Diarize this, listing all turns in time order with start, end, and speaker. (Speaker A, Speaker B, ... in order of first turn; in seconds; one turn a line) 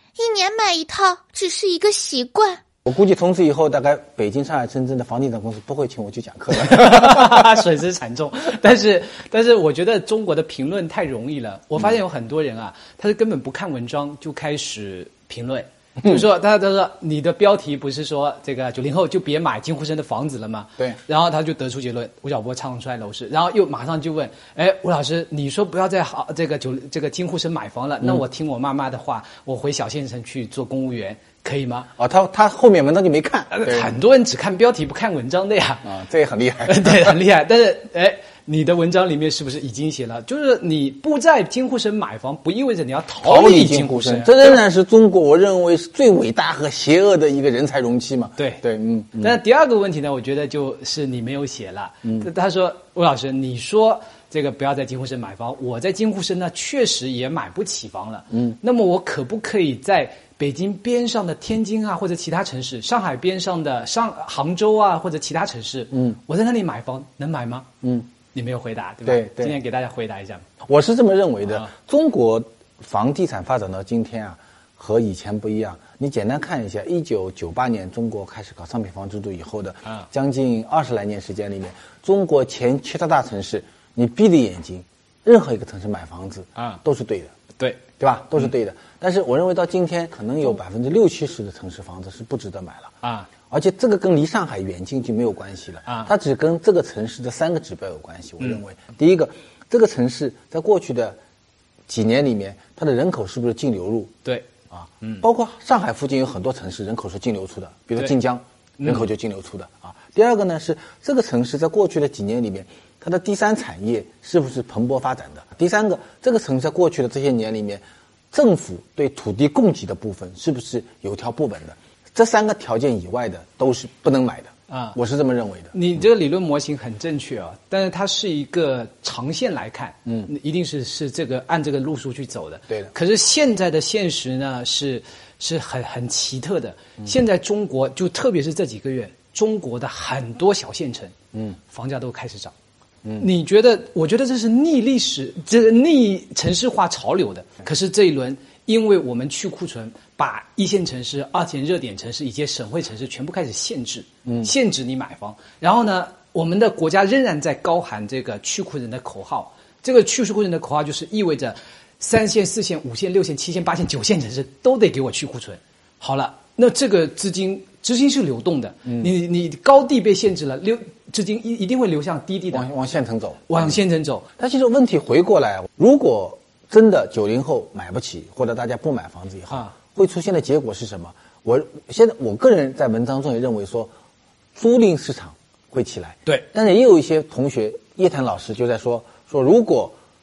Speaker A: 0.2-2.6
Speaker B: 2.8-7.5
Speaker C: 6.5-31.9
Speaker B: 32.0-33.9
Speaker C: 33.5-35.9
Speaker B: 35.8-37.1
Speaker C: 36.6-44.6
Speaker B: 43.2-49.4
Speaker C: 48.4-48.6
Speaker C: 49.2-67.7
Speaker B: 67.8-68.1
Speaker C: 68.3-70.4
Speaker B: 69.0-69.5
Speaker B: 70.6-87.3
Speaker B: 88.0-92.9
Speaker C: 93.0-93.3
Speaker B: 93.5-101.2
Speaker B: 101.9-104.1
Speaker C: 104.2-104.5
Speaker B: 104.7-125.7
Speaker C: 108.8-109.1
Speaker C: 124.7-125.0
Speaker C: 125.7-141.1
Speaker C: 141.7-142.5
Speaker C: 143.2-172.7
Speaker B: 172.5-173.7
Speaker C: 173.5-174.2
Speaker B: 174.4-183.9
Speaker B: 184.5-189.9